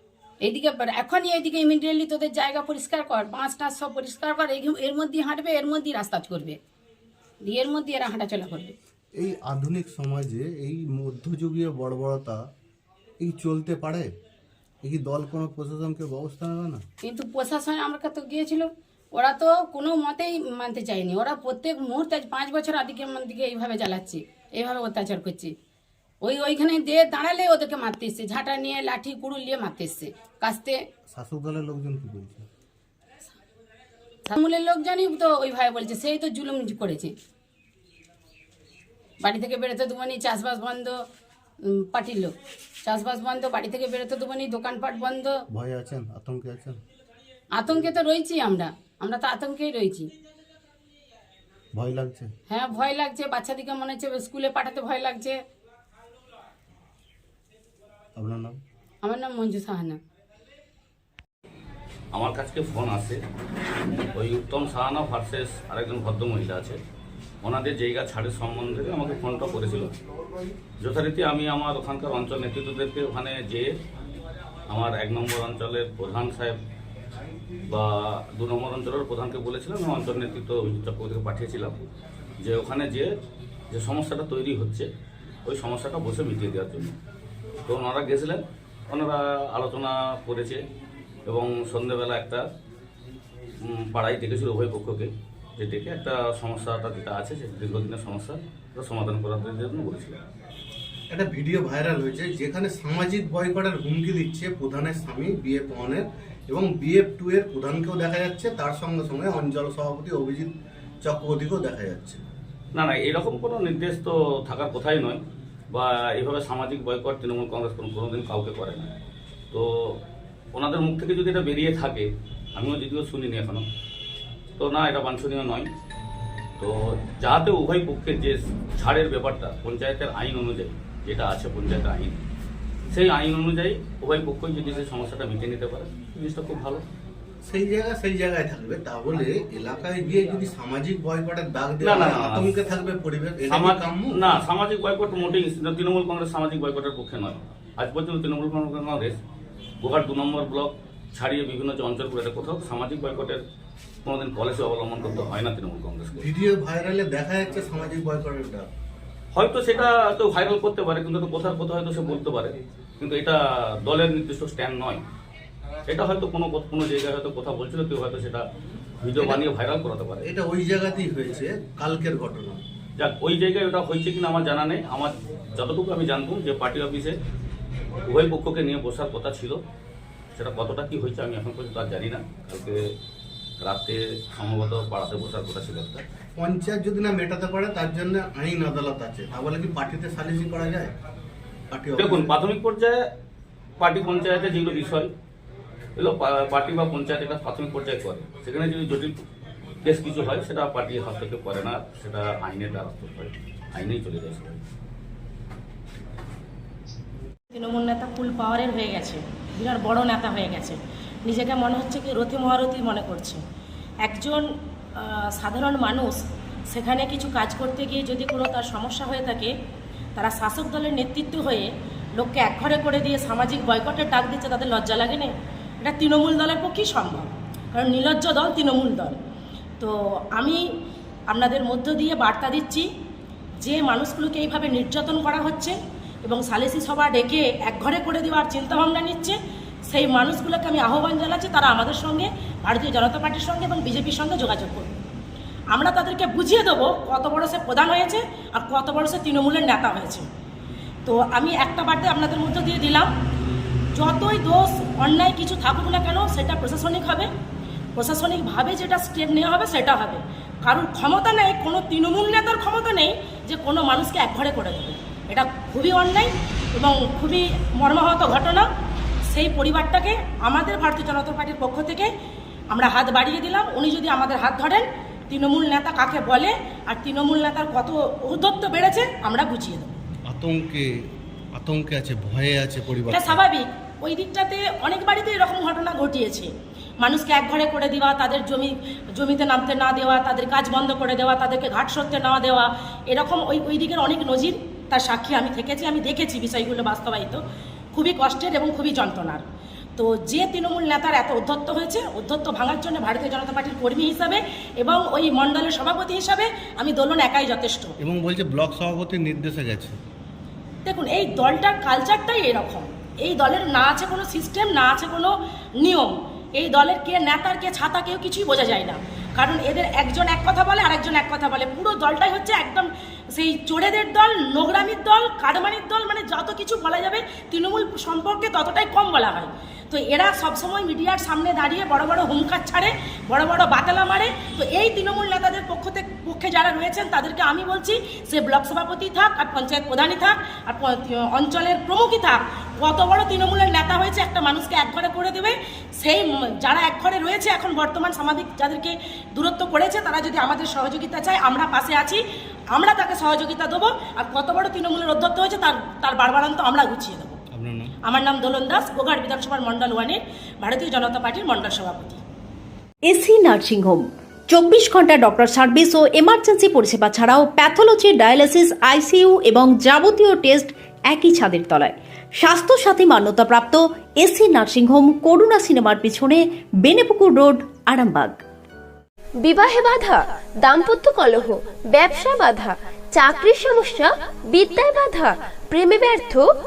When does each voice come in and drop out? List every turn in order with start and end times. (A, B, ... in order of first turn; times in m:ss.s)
0:00.4-0:06.6 A
0:07.5-0:08.7 A
0:09.2-0:12.4 B
0:13.2-0:14.1 B
0:14.8-0:16.8 B
0:17.0-0:25.5 A
0:26.2-0:30.8 A
0:31.1-0:32.4 B
0:34.3-0:37.1 A
0:39.2-0:40.9 A
0:41.8-0:42.3 A
0:42.9-0:45.3 A
0:45.5-0:46.8 B
0:47.6-0:50.1 A
0:51.7-0:52.3 B
0:52.5-0:55.4 A
0:58.2-0:58.6 B
0:59.0-1:00.0 A
1:02.1-1:03.2 C
1:04.1-1:06.8 C
1:07.4-1:09.9 C
1:10.8-1:13.7 C
1:14.7-1:16.6 C
1:17.7-1:21.8 C
1:22.4-1:23.1 C
1:23.7-1:24.9 C
1:25.4-1:26.9 C
1:27.6-1:30.6 C
1:31.3-1:32.4 C
1:33.6-1:40.2 C
1:41.1-1:50.5 B
1:51.0-1:52.2 B
1:52.7-1:55.2 C
1:55.7-1:58.9 C
1:59.5-2:00.0 C
2:00.5-2:03.6 C
2:04.6-2:05.7 C
2:06.6-2:12.2 C
2:12.9-2:16.8 C
2:17.4-2:24.4 B
2:21.8-2:22.6 C
2:23.5-2:29.2 C
2:29.8-2:33.4 C
2:34.0-2:36.3 C
2:36.2-2:38.7 B
2:39.3-2:45.0 C
2:45.9-2:48.4 C
2:49.0-2:50.3 C
2:50.2-2:52.6 B
2:53.0-2:57.2 C
2:58.1-2:59.6 C
3:00.4-3:02.8 C
3:03.6-3:06.0 C
3:06.4-3:10.9 B
3:11.7-3:12.3 B
3:12.0-3:13.0 C
3:13.8-3:15.1 C
3:16.0-3:19.1 C
3:19.8-3:24.6 C
3:27.5-3:33.4 D
3:34.0-3:34.4 D
3:35.0-3:39.5 D
3:40.2-3:49.2 D
3:49.8-3:50.6 D
3:51.3-3:52.9 D
3:53.6-3:59.4 D
3:59.9-4:04.9 D
4:05.7-4:10.3 D
4:11.1-4:13.1 D
4:13.9-4:17.3 D
4:18.0-4:28.7 D
4:29.3-4:32.1 D
4:32.7-4:39.9 D
4:40.3-4:40.9 B
4:41.6-4:43.4 B
4:43.1-4:59.4 D
5:00.0-5:07.9 D
5:08.0-5:10.0 B
5:10.8-5:57.4 D
5:57.5-5:57.9 B
5:58.0-6:02.2 D
6:03.1-6:18.4 E
6:19.4-6:26.4 F